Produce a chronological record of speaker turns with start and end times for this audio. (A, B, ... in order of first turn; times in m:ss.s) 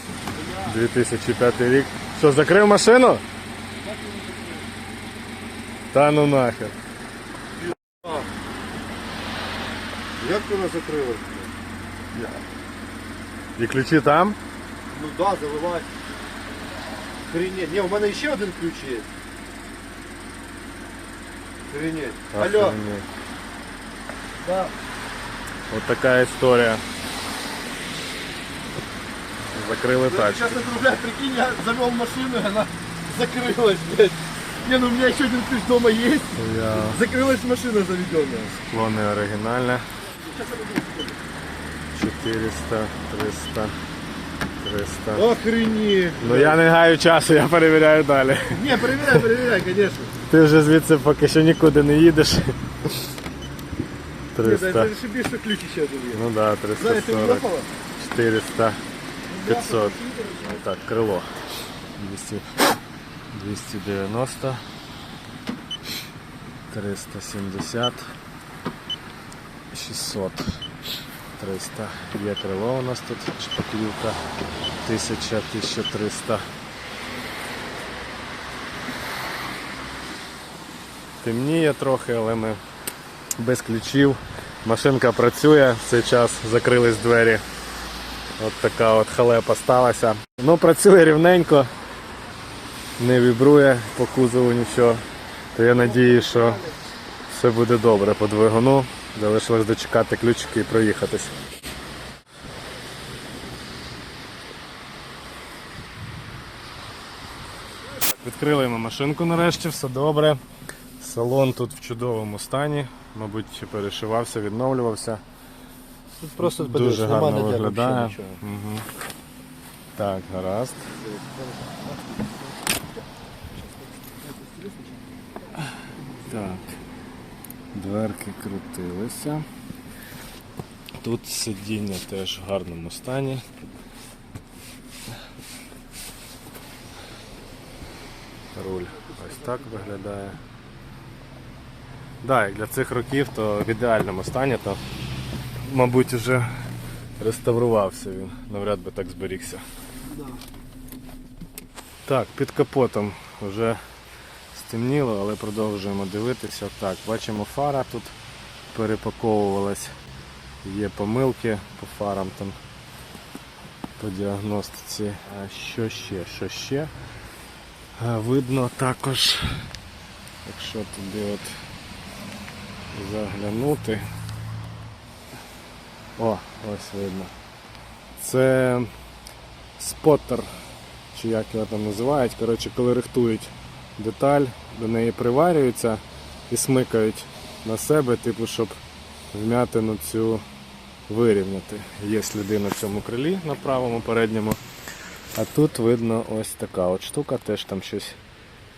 0:00.6-0:03.2 A
0:03.8-0:04.6 B
0:05.9-0:06.8 A
0:10.2-0:11.5 B
0:13.6-0:14.4 A
0:14.9-0:15.9 B
0:17.2-0:19.1 B
0:21.7-0:22.8 B
0:22.3-0:23.0 A
0:24.4-0:24.7 B
0:25.7-0:26.8 A
0:29.5-0:30.7 A
0:30.0-0:38.6 B
0:36.4-0:37.0 A
0:38.7-0:39.8 A
0:40.2-0:41.2 B
0:41.9-0:43.8 A
0:44.6-0:45.3 A
0:45.2-0:46.6 B
0:46.2-0:49.2 A
0:48.5-0:50.1 B
0:50.3-0:52.9 A
0:54.3-0:54.9 A
0:54.4-0:56.2 B
0:56.1-0:57.5 A
0:56.8-0:57.7 B
0:58.0-0:58.8 A
0:59.3-1:00.5 B
0:59.4-1:01.3 A
1:02.0-1:02.7 A
1:03.3-1:04.6 A
1:06.7-1:08.1 A
1:09.7-1:10.6 A
1:11.4-1:14.2 A
1:14.8-1:16.5 A
1:21.2-1:22.6 A
1:23.4-1:27.4 A
1:28.4-1:31.7 A
1:33.0-1:35.0 A
1:35.5-1:36.6 A
1:37.3-1:41.3 A
1:48.2-1:50.4 A
1:51.0-1:55.2 A
1:56.2-1:58.4 B
1:56.4-1:58.9 A
2:00.0-2:00.9 A
2:01.0-2:01.8 B
2:06.2-2:06.8 A
2:07.7-2:09.5 A
2:11.0-2:13.4 A
2:18.5-2:20.4 A
2:22.2-2:24.8 A
2:25.6-2:26.6 A
2:27.2-2:29.6 A
2:32.0-2:33.8 A
2:34.5-2:38.1 A
2:38.7-2:39.9 A
2:40.6-2:42.6 A
2:44.0-2:46.9 A
2:48.0-2:49.7 A
2:50.4-2:51.6 A
2:52.9-2:54.1 A
2:56.2-2:57.3 A
2:58.2-2:58.9 A
2:59.8-3:00.5 A
3:01.1-3:08.8 A
3:09.3-3:10.4 A
3:11.1-3:14.6 A
3:15.3-3:18.2 A